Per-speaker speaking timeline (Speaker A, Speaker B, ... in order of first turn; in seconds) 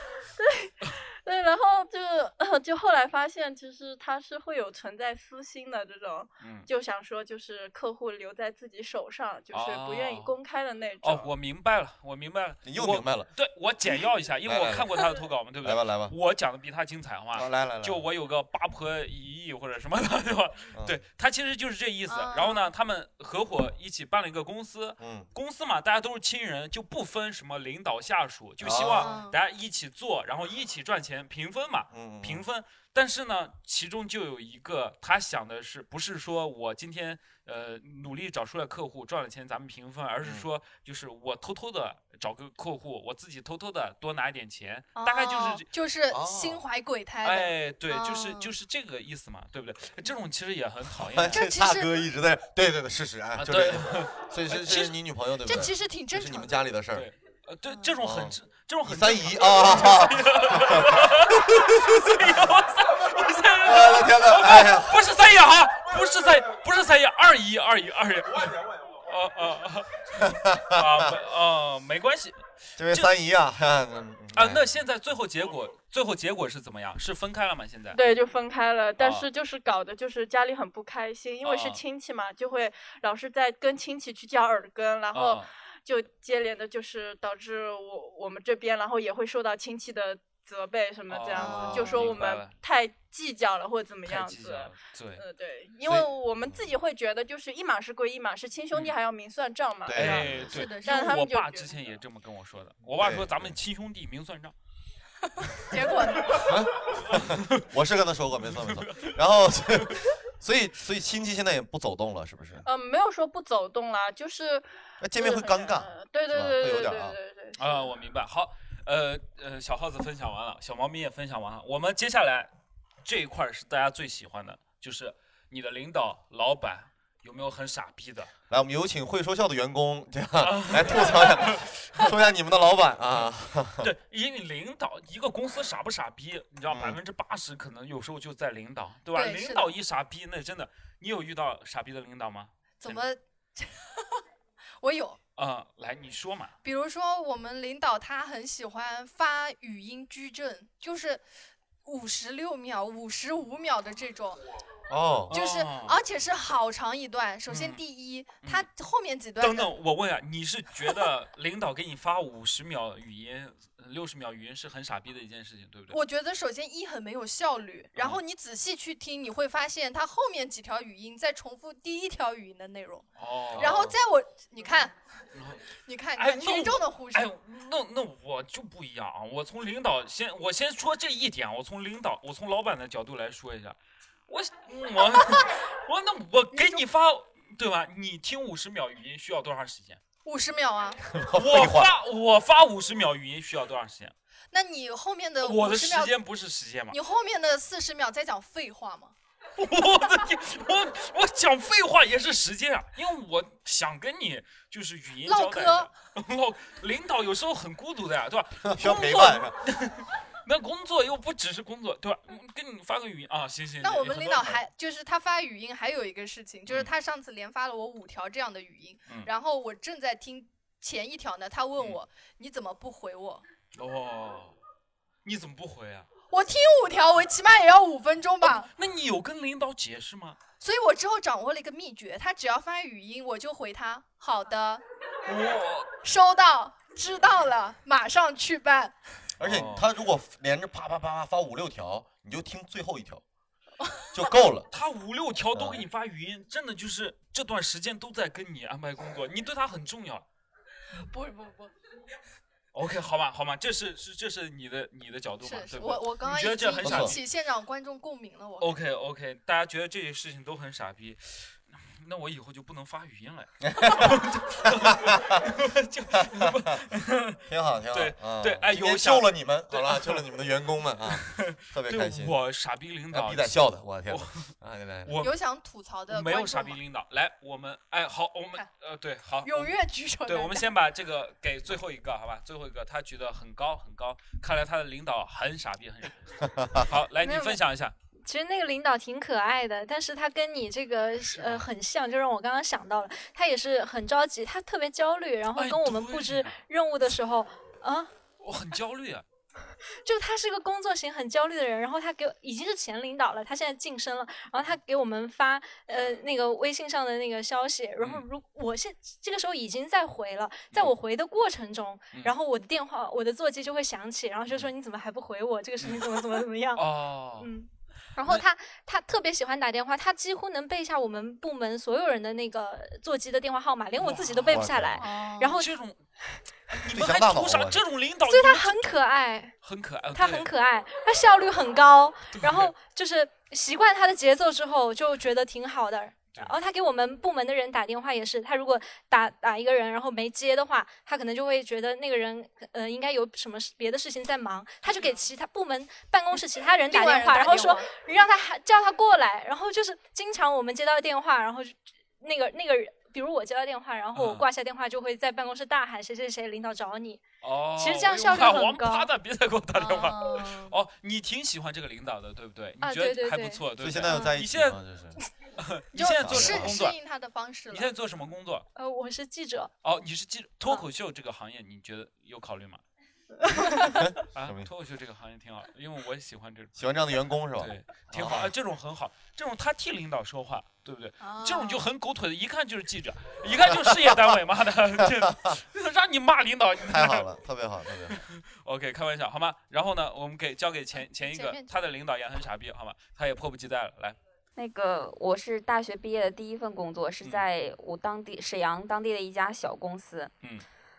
Speaker A: 0.4-11.3, 77.9-101.8, 112.6-117.9
Speaker B: 6.4-6.7, 9.5-10.3, 11.0-45.6, 47.2-51.4, 53.4-55.0, 56.9-73.1, 74.3-78.0, 79.0-79.2, 81.4-81.8, 85.1-85.5, 91.1-92.5, 94.0-95.2, 99.9-104.5, 106.2-107.6, 108.4-109.2, 109.7-110.0, 117.6-122.5, 123.0-128.3, 130.4-131.8, 133.8-143.0, 145.4-146.5, 155.3-156.0, 157.5-157.8, 158.4-158.7, 159.4-166.0, 167.9-168.2, 173.2-173.9, 175.3-175.6, 176.1-183.8, 184.3-190.0, 191.3-194.1, 195.4-197.0, 199.6-214.6, 223.7-224.6, 225.2-226.1, 228.4-230.4, 235.2-235.9, 239.4-239.9, 244.7-250.2, 252.7-257.2, 258.6-267.4, 267.9-270.2, 271.1-274.5, 275.0-275.4, 276.1-287.9, 291.3-291.6, 295.5-296.6, 298.4-299.2, 308.0-308.2, 315.8-316.1, 316.7-317.5, 324.0-324.8, 325.6-326.0, 326.7-329.0, 329.6-330.5, 332.3-332.7, 354.1-354.5, 357.4-364.8, 365.6-367.0, 367.7-368.7, 369.8-372.8, 374.3-376.7, 377.6-387.3, 388.1-394.2
Speaker C: 12.6-13.3, 14.4-15.0, 15.6-16.1, 17.3-18.1, 25.0-25.3, 28.6-29.1, 31.9-32.4, 40.2-40.5, 46.1-46.6, 51.0-57.1, 58.0-62.2, 63.6-65.0, 70.2-71.1, 72.8-74.8, 99.8-100.6, 103.0-103.5, 106.3-112.6, 115.0-117.2, 128.5-133.9, 136.7-137.0, 154.9-155.3, 191.1-191.9, 208.6-209.5, 239.4-243.2, 244.1-244.7, 245.5-245.8, 256.8-257.1, 263.6-265.4, 266.1-266.7, 267.5-272.4, 273.1-275.1, 286.4-286.9, 324.5-325.0, 326.9-327.8, 363.8-365.2, 366.2-366.8, 373.9-374.7, 376.8-378.5, 383.8-384.3, 385.0-385.5, 386.9-388.2
Speaker D: 22.1-22.6, 28.9-29.4, 44.9-48.5, 51.3-51.9, 55.5-56.5, 91.3-92.2, 100.4-101.2, 105.7-106.5, 139.1-139.7, 142.8-144.2, 144.8-145.2, 146.6-151.2, 151.8-154.4, 155.3-159.7, 165.9-174.9, 175.8-177.3, 186.5-186.8, 190.2-191.1, 194.5-196.2, 196.9-199.1, 205.2-205.9, 213.8-223.4, 226.3-228.7, 230.6-234.8, 236.0-238.9, 251.0-251.7, 255.4-258.8, 275.2-276.8, 279.4-280.7, 325.0-325.6, 344.8-345.2, 346.9-347.9, 359.8-360.7, 365.9-367.9, 381.2-381.9, 391.0-391.7
Speaker E: 287.2-287.5, 288.2-298.1, 300.0-316.8, 317.4-325.7, 328.2-329.5, 330.1-359.1, 362.8-364.2, 368.8-369.7
Speaker F: 394.5-400.3